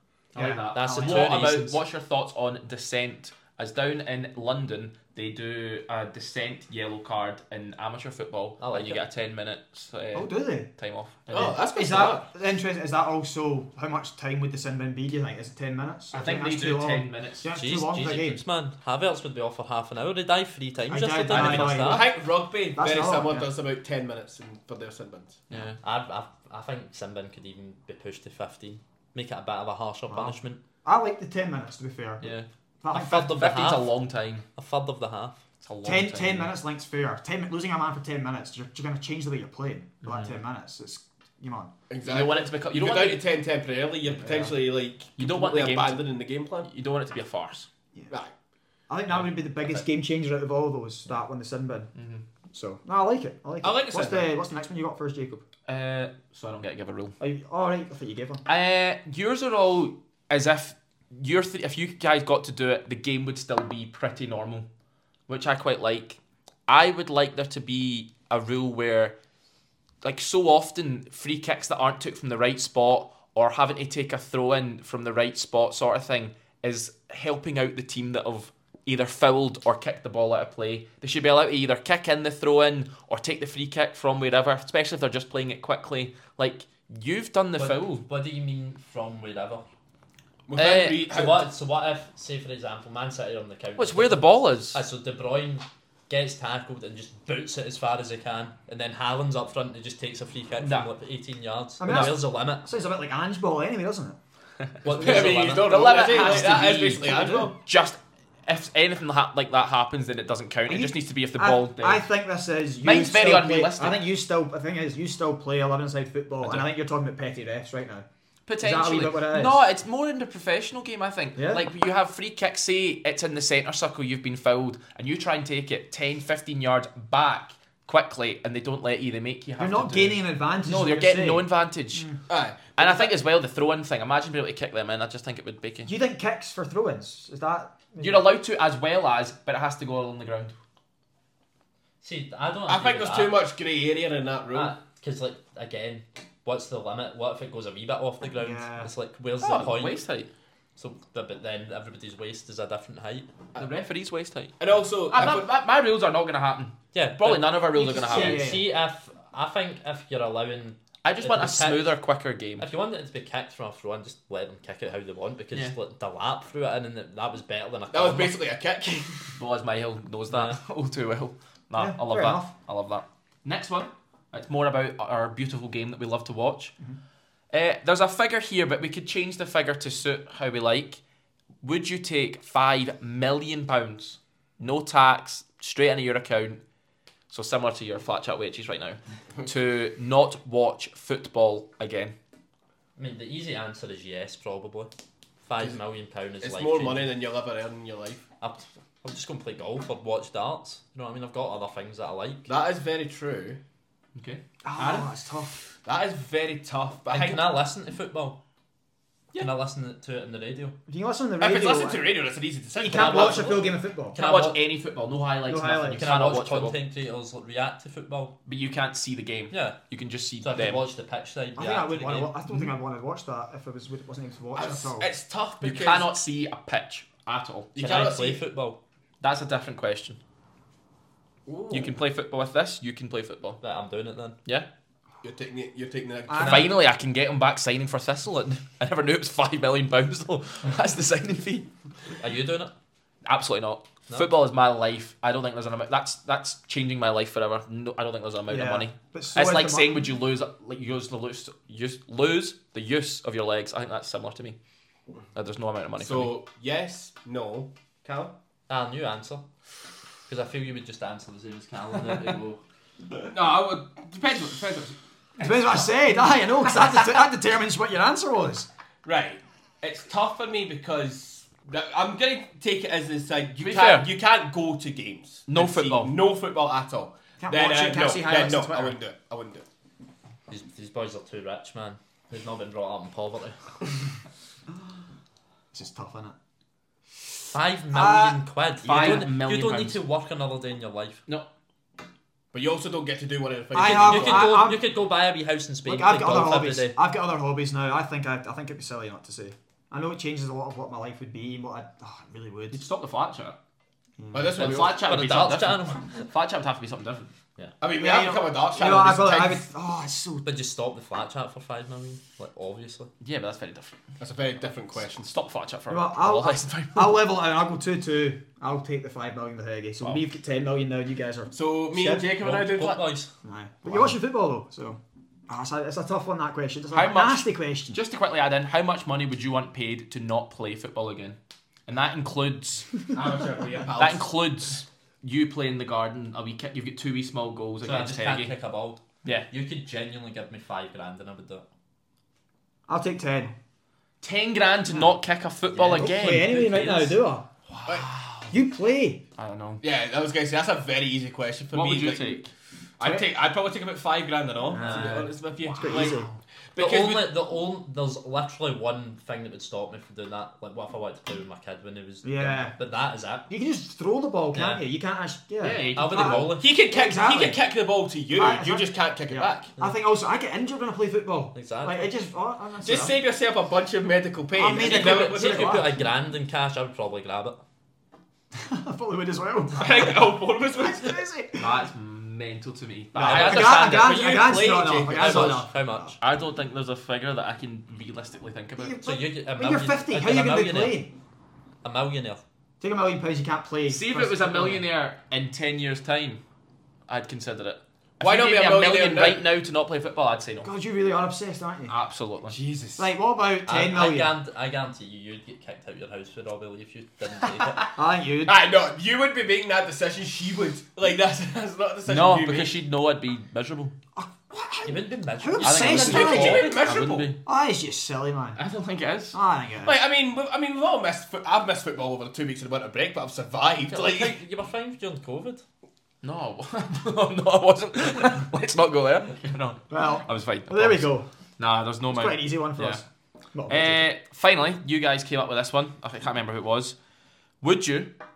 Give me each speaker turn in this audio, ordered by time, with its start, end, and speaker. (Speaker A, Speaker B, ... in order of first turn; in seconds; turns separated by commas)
Speaker A: 0.3-11.6, Speaker B: 0.3-1.4, Speaker C: 0.7-1.8, Speaker C: 8.6-9.0, Speaker B: 10.1-10.7, Speaker D: 11.3-12.2, Speaker B: 11.5-18.4, Speaker A: 16.1-17.5, Speaker C: 17.5-22.1, Speaker B: 20.9-22.1, Speaker D: 21.3-25.4, Speaker B: 22.7-23.5, Speaker A: 25.5-25.8, Speaker C: 25.8-30.6, Speaker B: 30.1-32.3, Speaker A: 32.2-34.4, Speaker B: 32.8-33.3, Speaker C: 32.9-33.9, Speaker C: 34.5-35.4, Speaker A: 35.6-36.5, Speaker B: 35.8-41.7, Speaker A: 40.0-40.3, Speaker D: 41.9-46.7, Speaker A: 42.0-43.2, Speaker B: 44.1-44.5, Speaker A: 45.2-46.1, Speaker A: 46.6-47.7, Speaker B: 48.9-51.9, Speaker A: 51.9-52.2, Speaker B: 52.5-55.4, Speaker A: 53.6-54.4, Speaker A: 55.7-57.2, Speaker B: 57.2-58.4, Speaker A: 58.5-64.7, Speaker A: 65.3-69.1, Speaker A: 70.0-88.0, Speaker C: 87.6-89.6, Speaker D: 90.5-91.5, Speaker A: 90.5-91.3, Speaker C: 91.1-102.7, Speaker A: 93.8-94.8, Speaker A: 100.6-100.9, Speaker B: 101.8-104.2, Speaker A: 101.8-102.1, Speaker C: 104.8-106.5, Speaker B: 104.8-105.3, Speaker D: 104.9-107.5, Speaker A: 105.0-112.1, Speaker B: 106.2-107.5, Speaker B: 110.7-118.0, Speaker A: 112.8-114.0, Speaker A: 116.4-116.7, Speaker A: 118.5-132.1, Speaker B: 118.6-119.6, Speaker B: 121.3-121.7, Speaker B: 129.6-132.2, Speaker D: 132.3-132.8, Speaker A: 132.7-135.9, Speaker B: 135.8-138.3, Speaker A: 138.0-140.5, Speaker C: 142.0-143.4, Speaker D: 142.7-144.7, Speaker C: 144.5-150.0, Speaker B: 148.4-148.9, Speaker A: 149.4-150.3, Speaker C: 150.8-153.3, Speaker A: 153.6-154.6, Speaker D: 154.6-155.5, Speaker A: 155.1-158.6, Speaker C: 156.9-161.9, Speaker B: 157.7-158.7, Speaker A: 161.0-162.6, Speaker C: 162.6-168.3, Speaker D: 167.9-169.3, Speaker A: 169.3-176.7, Speaker C: 170.3-170.6, Speaker B: 171.8-172.5, Speaker A: 177.5-181.0, Speaker A: 181.6-186.6, Speaker A: 187.3-192.2, Speaker C: 193.0-194.9, Speaker C: 195.4-197.1, Speaker D: 196.4-198.2, Speaker C: 198.4-202.5, Speaker D: 202.5-203.6, Speaker A: 204.1-204.4, Speaker B: 204.6-205.7, Speaker D: 205.8-207.5, Speaker C: 207.1-208.4, Speaker C: 209.3-210.8, Speaker B: 210.9-212.0, Speaker D: 211.4-213.7, Speaker B: 212.8-214.2, Speaker C: 212.9-214.6, Speaker A: 214.2-216.8, Speaker B: 215.5-216.1, Speaker C: 216.0-218.3, Speaker A: 218.4-220.8, Speaker C: 219.5-219.8, Speaker C: 220.4-222.3, Speaker B: 221.6-225.1, Speaker D: 224.6-226.2, Speaker A: 225.6-227.7, Speaker D: 227.7-228.4, Speaker C: 227.8-228.8, Speaker A: 229.2-230.2, Speaker D: 231.4-231.9, Speaker A: 231.7-233.6, Speaker C: 233.6-234.4, Speaker D: 235.2-236.7, Speaker B: 236.3-236.7, Speaker A: 236.4-241.7, Speaker C: 242.2-242.7, Speaker A: 243.2-254.6, Speaker B: 248.5-250.0, Speaker A: 255.3-256.4, Speaker D: 256.0-257.7, Speaker C: 258.0-259.4, Speaker C: 260.3-262.6, Speaker D: 263.3-264.9, Speaker B: 265.4-268.7, Speaker D: 269.0-279.6, Speaker A: 273.6-274.1, Speaker A: 275.5-276.1, Speaker B: 277.4-278.9, Speaker C: 280.5-283.6, Speaker B: 285.7-286.4, Speaker C: 287.5-291.2, Speaker B: 287.9-288.4, Speaker A: 288.8-290.0, Speaker D: 292.5-294.6, Speaker B: 293.7-294.9, Speaker C: 293.7-297.0, Speaker B: 295.9-302.8, Speaker A: 302.7-303.6, Speaker B: 304.2-304.7, Speaker D: 304.3-305.1, Speaker A: 304.6-307.3, Speaker C: 304.7-306.3, Speaker D: 307.8-309.6, Speaker B: 308.0-310.5, Speaker C: 310.4-313.1, Speaker A: 313.2-314.0, Speaker D: 314.2-315.3, Speaker A: 315.2-317.3, Speaker B: 315.9-322.3, Speaker D: 321.5-323.2, Speaker C: 322.4-323.3, Speaker B: 323.4-328.0, Speaker A: 326.9-332.9, Speaker D: 333.1-334.3, Speaker A: 333.9-338.5, Speaker C: 337.8-341.6, Speaker A: 339.2-339.5, Speaker B: 342.9-343.5, Speaker A: 344.2-348.5, Speaker B: 345.8-347.5, Speaker C: 345.8-346.1, Speaker B: 348.5-349.2, Speaker A: 349.4-349.8, Speaker D: 349.8-352.4, Speaker A: 351.7-352.5, Speaker D: 353.0-357.4, Speaker B: 353.0-353.3, Speaker B: 354.7-356.3, Speaker A: 354.8-355.3, Speaker C: 356.8-363.5, Speaker B: 362.2-362.7, Speaker B: 363.5-367.6, Speaker C: 364.5-364.8, Speaker A: 365.6-366.5, Speaker C: 365.9-366.7, Speaker D: 366.5-369.7, Speaker B: 368.3-373.2, Speaker C: 371.5-372.1, Speaker D: 372.8-375.8, Speaker B: 374.5-375.9, Speaker C: 374.8-377.6, Speaker B: 378.5-381.8, Speaker D: 379.7-381.2, Speaker A: 381.6-384.2, Speaker B: 383.1-386.1, Speaker C: 383.2-383.8, Speaker D: 383.3-385.6, Speaker C: 385.1-386.2, Speaker A: 386.2-389.0, Speaker B: 388.8-391.1, Speaker C: 389.0-391.1, Speaker C: 391.8-392.4, Speaker B: 392.8-394.9, Speaker A: 393.9-396.4, Speaker A: 397.1-400.7, Speaker D: 398.2-399.4, Speaker B: 400.6-401.9, Speaker A: 401.9-402.5, Speaker D: 402.5-403.1, Speaker B: 403.0-404.3, Speaker C: 403.6-407.9, Speaker B: 407.9-408.6, Speaker D: 408.4-412.8, Speaker A: 412.1-413.9, Speaker B: 414.1-416.7, Speaker C: 414.8-416.8, Speaker A: 415.6-417.4, Speaker D: 415.9-417.3, Speaker B: 417.4-418.6, Speaker A: 418.6-419.4, Speaker B: 419.3-420.0, Speaker D: 419.8-424.4, Speaker C: 423.9-425.6, Speaker A: 426.2-433.0, Speaker B: 429.9-431.3, Speaker B: 432.1-434.1, Speaker A: 433.7-436.9, Speaker A: 437.6-438.1